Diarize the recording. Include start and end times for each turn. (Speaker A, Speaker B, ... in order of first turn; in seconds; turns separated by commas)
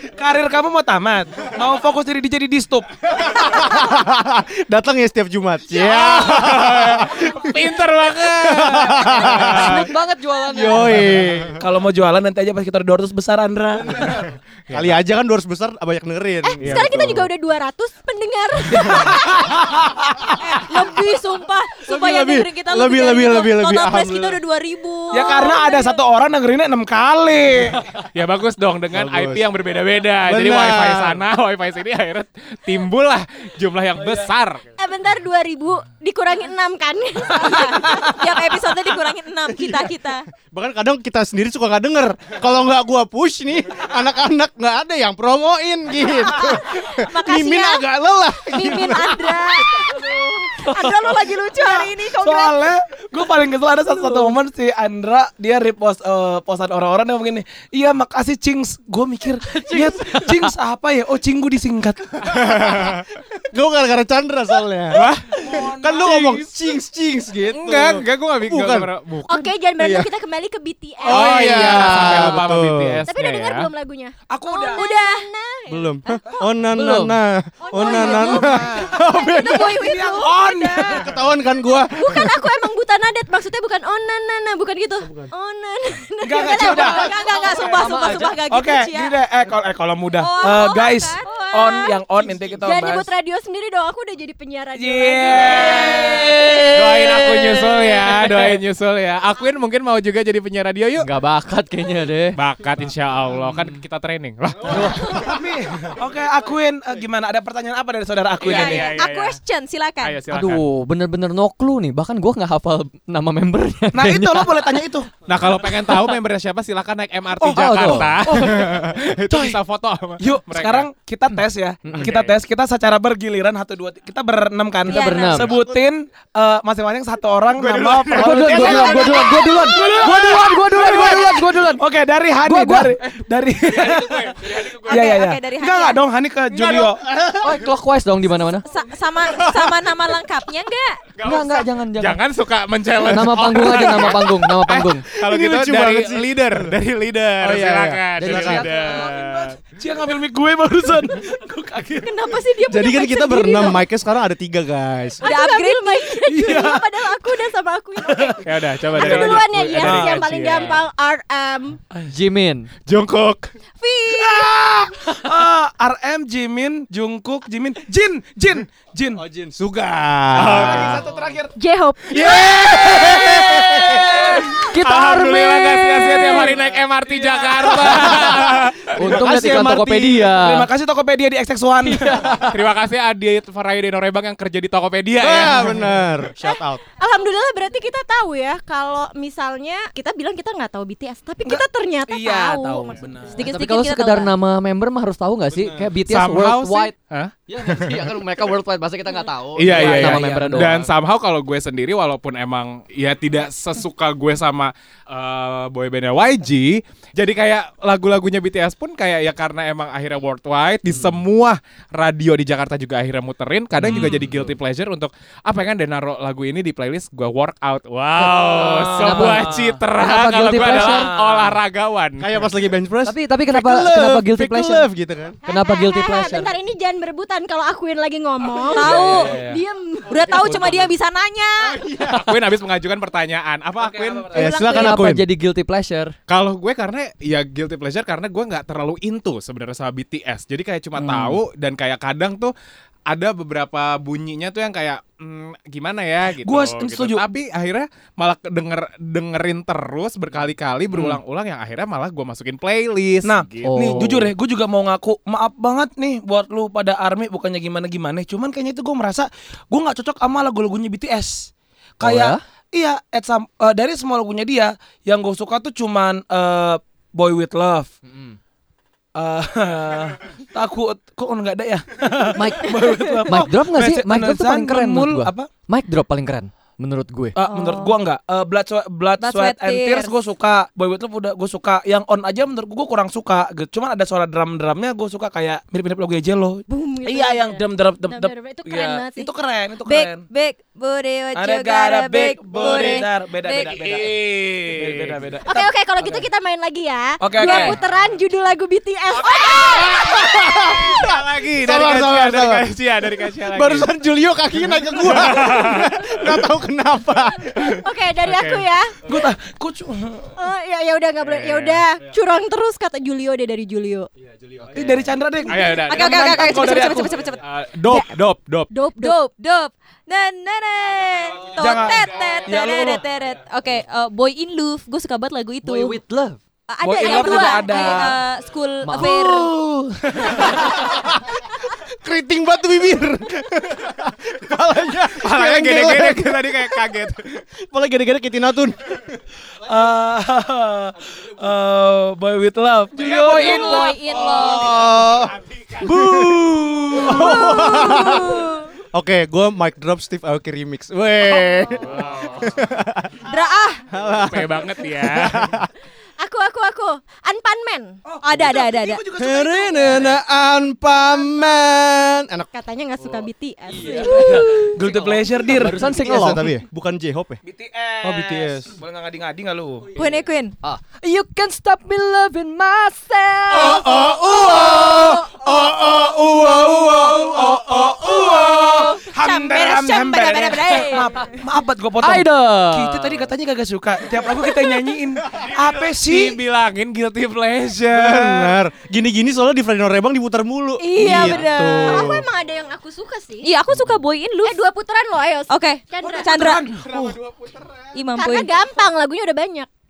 Speaker A: 0.1-2.9, Speaker B: 3.3-7.6, Speaker C: 5.7-9.9, Speaker B: 8.2-9.9, Speaker D: 9.0-11.0, Speaker B: 10.5-11.6, Speaker A: 11.6-14.2, Speaker C: 14.7-15.0, Speaker B: 14.7-17.2, Speaker E: 16.4-19.4, Speaker C: 16.6-17.2, Speaker B: 18.8-20.8, Speaker F: 20.4-25.9, Speaker B: 21.9-24.4, Speaker A: 25.1-27.8, Speaker C: 28.0-34.6, Speaker B: 28.9-29.5, Speaker B: 30.2-31.2, Speaker A: 34.0-34.3, Speaker E: 34.8-38.0, Speaker F: 37.4-40.2, Speaker B: 39.6-39.9, Speaker B: 40.5-49.6, Speaker F: 46.3-47.9, Speaker F: 48.5-52.7, Speaker E: 49.2-50.0, Speaker A: 50.6-62.3, Speaker D: 59.5-60.5, Speaker B: 62.2-68.9, Speaker C: 64.9-65.4, Speaker A: 65.3-66.7, Speaker C: 67.5-69.5, Speaker E: 69.3-71.3, Speaker B: 69.8-70.1, Speaker B: 71.0-73.0, Speaker C: 71.0-73.7, Speaker D: 71.9-72.4, Speaker E: 73.1-76.4, Speaker A: 74.3-74.8, Speaker F: 74.6-75.3, Speaker B: 75.7-80.0, Speaker D: 76.7-77.1, Speaker E: 77.6-81.0, Speaker F: 77.8-78.6, Speaker F: 79.4-80.2, Speaker A: 79.6-81.1, Speaker B: 80.8-82.4, Speaker E: 81.7-87.7, Speaker B: 85.0-85.3, Speaker A: 86.2-87.1, Speaker F: 86.5-89.2, Speaker D: 87.6-88.4, Speaker A: 88.5-93.1, Speaker F: 90.2-92.0, Speaker E: 92.6-96.2, Speaker A: 94.8-96.8, Speaker D: 96.3-97.3, Speaker C: 96.7-101.1, Speaker A: 97.8-98.6, Speaker D: 101.0-102.4, Speaker C: 102.3-105.3, Speaker D: 104.7-105.1, Speaker A: 104.9-108.9, Speaker B: 105.0-105.3, Speaker F: 108.4-110.2, Speaker C: 108.4-109.4, Speaker C: 110.0-110.6, Speaker D: 110.2-114.8, Speaker A: 113.9-115.1, Speaker C: 115.3-120.9, Speaker A: 117.4-119.6, Speaker D: 117.5-118.4, Speaker A: 120.2-137.0, Speaker C: 122.0-122.3, Speaker F: 124.8-125.5, Speaker D: 124.9-125.5, Speaker C: 127.5-128.9, Speaker D: 128.2-131.8, Speaker B: 128.2-129.0, Speaker E: 128.9-130.1, Speaker F: 129.0-130.0, Speaker D: 132.4-133.0, Speaker C: 133.7-135.1, Speaker F: 134.9-136.0, Speaker B: 136.8-137.6, Speaker D: 137.4-138.7, Speaker F: 138.6-141.1, Speaker B: 139.3-139.7, Speaker C: 141.2-149.6, Speaker D: 141.2-142.2, Speaker D: 143.0-145.1, Speaker B: 143.5-144.1, Speaker B: 145.1-146.7, Speaker B: 147.4-148.7, Speaker D: 148.2-148.8, Speaker A: 148.6-152.4, Speaker F: 152.0-153.8, Speaker B: 152.7-155.2, Speaker E: 153.1-153.8, Speaker F: 155.2-156.7, Speaker E: 155.2-161.8, Speaker A: 156.4-156.8, Speaker A: 158.0-160.1, Speaker C: 158.4-160.8, Speaker D: 162.1-162.7, Speaker C: 162.9-163.5, Speaker F: 163.8-164.5, Speaker A: 164.1-169.2, Speaker B: 169.2-171.0, Speaker C: 170.3-171.1, Speaker A: 170.6-171.5, Speaker E: 171.6-172.3, Speaker C: 172.1-178.9, Speaker B: 172.3-174.4, Speaker D: 174.2-176.0, Speaker A: 177.2-178.4, Speaker B: 177.6-180.4, Speaker D: 178.9-180.7, Speaker A: 179.0-179.7, Speaker A: 180.3-182.5, Speaker D: 181.9-182.5, Speaker C: 182.5-186.0, Speaker B: 185.2-186.8, Speaker E: 186.4-193.0, Speaker A: 191.4-193.4, Speaker F: 193.3-194.3, Speaker D: 193.4-196.9, Speaker B: 195.5-195.9, Speaker C: 196.1-198.2, Speaker D: 197.5-200.9, Speaker C: 199.6-222.4, Speaker A: 199.6-200.8, Speaker D: 213.8-214.4, Speaker A: 213.9-214.2, Speaker D: 218.2-221.1, Speaker A: 219.2-219.7, Speaker A: 220.4-221.6, Speaker B: 222.2-225.4, Speaker D: 223.0-224.9, Speaker D: 225.4-226.5, Speaker E: 225.4-230.2, Speaker F: 228.7-229.5, Speaker C: 228.8-229.6, Speaker F: 230.1-231.8, Speaker C: 230.5-230.7, Speaker B: 231.6-232.5, Speaker C: 232.0-234.3, Speaker A: 233.8-234.5, Speaker F: 234.3-235.1, Speaker B: 234.3-235.2, Speaker D: 234.6-236.1, Speaker C: 236.3-242.5, Speaker A: 241.0-241.4, Speaker C: 243.1-254.2, Speaker A: 246.4-247.3, Speaker A: 250.9-251.2, Speaker A: 253.2-267.9, Speaker D: 253.7-254.3, Speaker D: 262.0-262.4, Speaker D: 268.1-268.4, Speaker A: 269.1-275.5, Speaker D: 272.3-277.4, Speaker A: 277.4-290.2, Speaker F: 277.4-277.9, Speaker F: 279.2-280.1, Speaker E: 286.7-289.3, Speaker F: 289.9-293.8, Speaker A: 291.3-296.2, Speaker C: 293.7-295.2, Speaker E: 295.5-300.8, Speaker A: 297.2-297.8, Speaker F: 297.4-297.7, Speaker C: 299.5-303.9, Speaker B: 300.2-302.7, Speaker B: 303.2-307.8, Speaker C: 304.9-306.4, Speaker C: 307.5-308.6, Speaker E: 307.6-309.0, Speaker A: 309.0-310.3, Speaker E: 310.4-314.1, Speaker C: 311.2-311.8, Speaker A: 314.7-317.2, Speaker C: 315.4-316.7, Speaker F: 315.8-317.4, Speaker C: 317.4-318.7, Speaker E: 318.7-319.1, Speaker F: 318.9-326.0, Speaker A: 321.6-323.0, Speaker D: 325.6-326.4, Speaker F: 326.7-329.5, Speaker A: 326.8-328.2, Speaker E: 327.0-328.0, Speaker D: 328.8-329.1, Speaker B: 329.0-336.9, Speaker A: 330.1-330.6, Speaker C: 335.2-337.4, Speaker B: 337.7-339.1, Speaker A: 339.6-344.0, Speaker F: 343.0-344.8, Speaker C: 343.2-347.0, Speaker B: 344.2-353.3, Speaker E: 347.0-348.0, Speaker F: 347.1-348.7, Speaker C: 351.8-352.6, Speaker F: 353.2-353.8, Speaker B: 353.9-355.7, Speaker C: 354.1-355.6, Speaker E: 356.2-358.0, Speaker A: 358.1-360.2, Speaker F: 358.2-359.0, Speaker B: 359.1-362.5, Speaker E: 362.5-364.8, Speaker D: 363.7-366.5, Speaker A: 364.1-365.9, Speaker B: 365.9-367.4, Speaker A: 367.4-369.9, Speaker B: 368.0-368.7, Speaker F: 369.9-370.6, Speaker D: 370.6-374.1, Speaker B: 373.5-378.9, Speaker D: 374.9-375.4, Speaker A: 377.2-386.4, Speaker F: 378.7-381.4, Speaker D: 382.0-383.2, Speaker C: 385.3-388.6, Speaker B: 387.9-392.2, Speaker F: 390.8-392.2, Speaker E: 390.8-393.5, Speaker F: 393.4-394.6, Speaker E: 394.4-396.6, Speaker F: 395.5-396.7, Speaker A: 396.0-397.1, Speaker F: 397.9-398.5, Speaker E: 398.1-399.7